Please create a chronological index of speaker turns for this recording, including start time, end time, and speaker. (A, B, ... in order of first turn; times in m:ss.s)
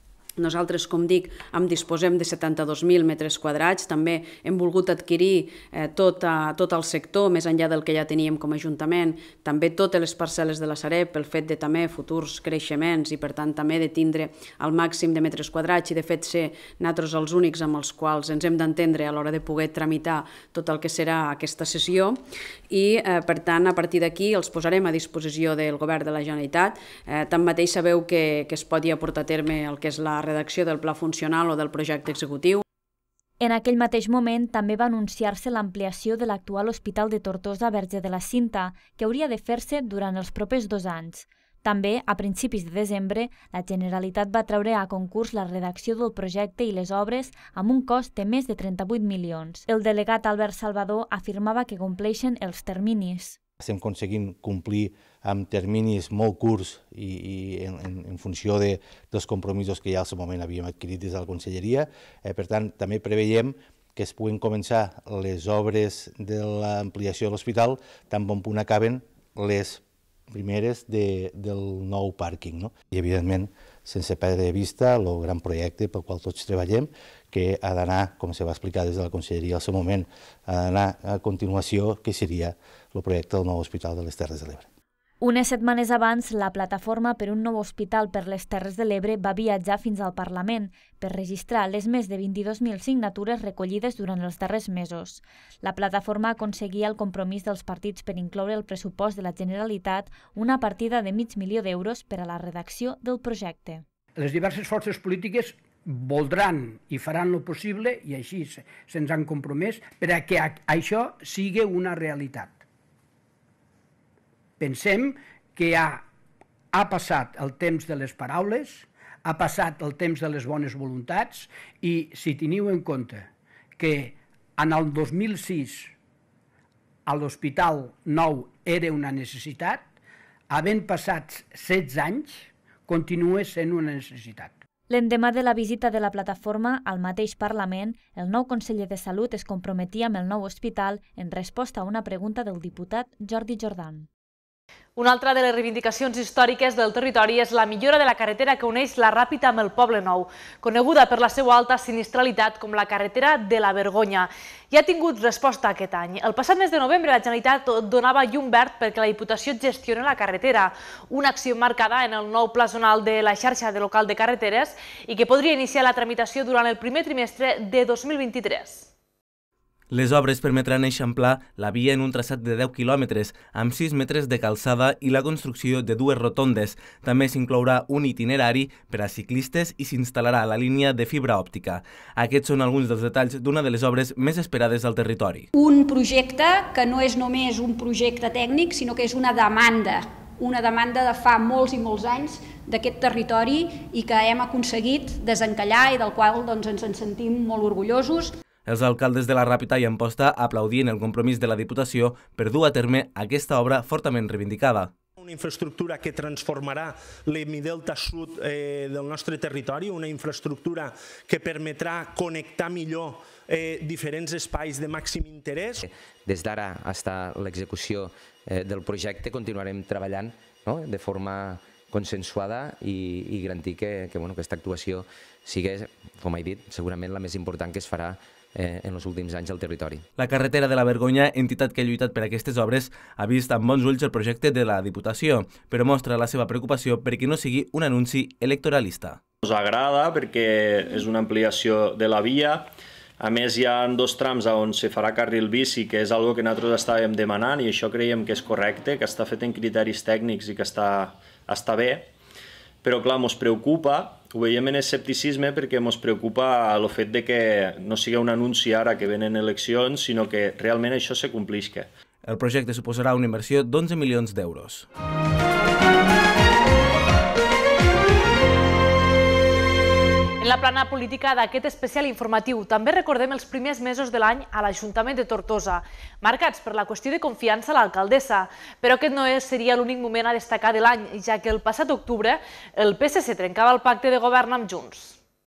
0:00.4-0:32.6 A
0:33.4-0:53.4 B
0:53.6-1:24.7 C
1:25.2-1:43.8 B
1:44.2-1:52.6 D
1:54.6-1:56.0 D
1:56.7-2:05.9 D
2:07.1-2:09.9 D
2:10.5-2:14.6 D
2:14.9-2:24.1 B
2:25.0-2:48.9 E
2:49.9-3:05.5 F
3:05.5-3:18.3 G
3:18.7-3:24.9 F
3:25.3-3:26.8 H
3:27.4-3:29.8 H
3:31.6-3:32.9 H
3:33.7-3:34.5 H
3:35.1-3:35.4 H
3:35.8-3:50.1 I
3:50.2-3:59.2 F
3:59.4-4:12.1 J
4:12.8-4:21.9 J
4:22.3-4:24.9 F
4:30.4-4:45.2 E